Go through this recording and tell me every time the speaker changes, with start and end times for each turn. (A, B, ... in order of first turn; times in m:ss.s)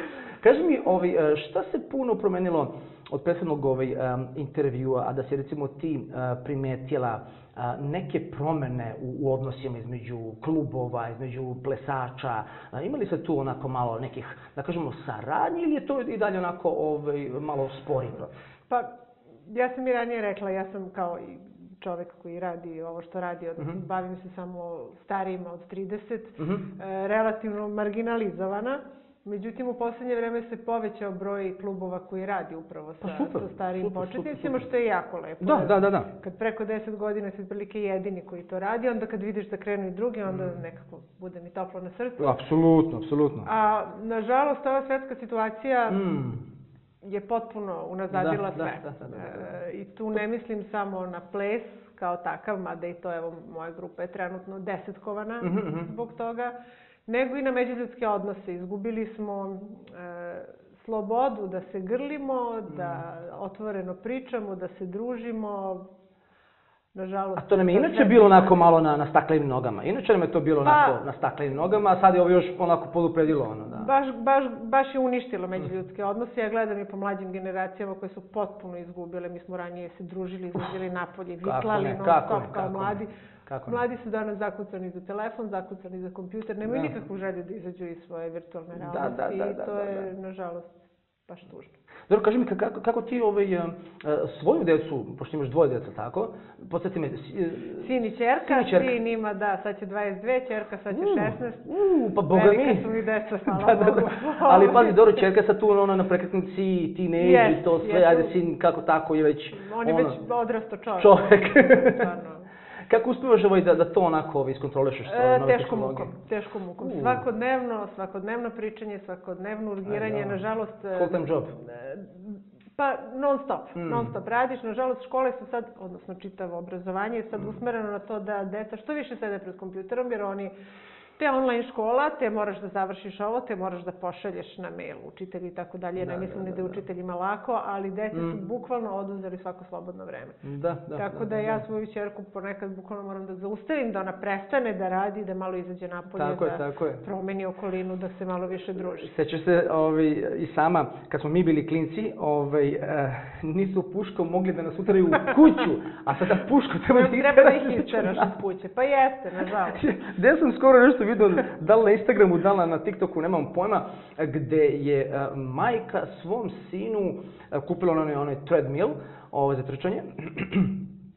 0:00.4-0:18.3 A
0:19.5-0:42.4 B
0:26.4-0:26.7 A
0:33.0-0:34.7 A
0:35.4-0:36.1 A
0:40.3-0:40.6 A
0:42.2-0:43.5 A
0:43.4-0:46.0 B
0:45.9-0:46.4 A
0:47.0-0:56.5 B
0:48.1-0:49.5 A
0:55.4-0:55.9 A
0:57.1-1:05.9 B
1:02.7-1:03.0 A
1:06.9-1:08.6 B
1:07.4-1:13.9 A
1:10.6-1:11.0 B
1:13.7-1:23.1 B
1:21.4-1:23.8 A
1:23.6-1:31.7 B
1:26.6-1:26.9 A
1:28.7-1:30.1 A
1:32.1-1:39.0 A
1:37.8-1:41.7 B
1:40.9-1:42.9 A
1:42.3-1:45.2 B
1:43.4-1:50.2 A
1:47.2-1:48.4 B
1:49.5-1:52.5 B
1:51.0-1:52.1 A
1:52.9-1:56.1 A
1:55.0-2:10.5 B
1:56.8-1:57.2 A
1:59.8-2:00.4 A
2:00.9-2:01.5 A
2:03.8-2:04.1 A
2:11.2-2:20.4 B
2:16.0-2:16.8 A
2:18.1-2:18.4 A
2:20.4-2:21.6 A
2:20.9-2:29.1 B
2:26.2-2:27.0 A
2:29.0-2:38.3 A
2:36.9-2:39.8 B
2:39.7-2:50.8 A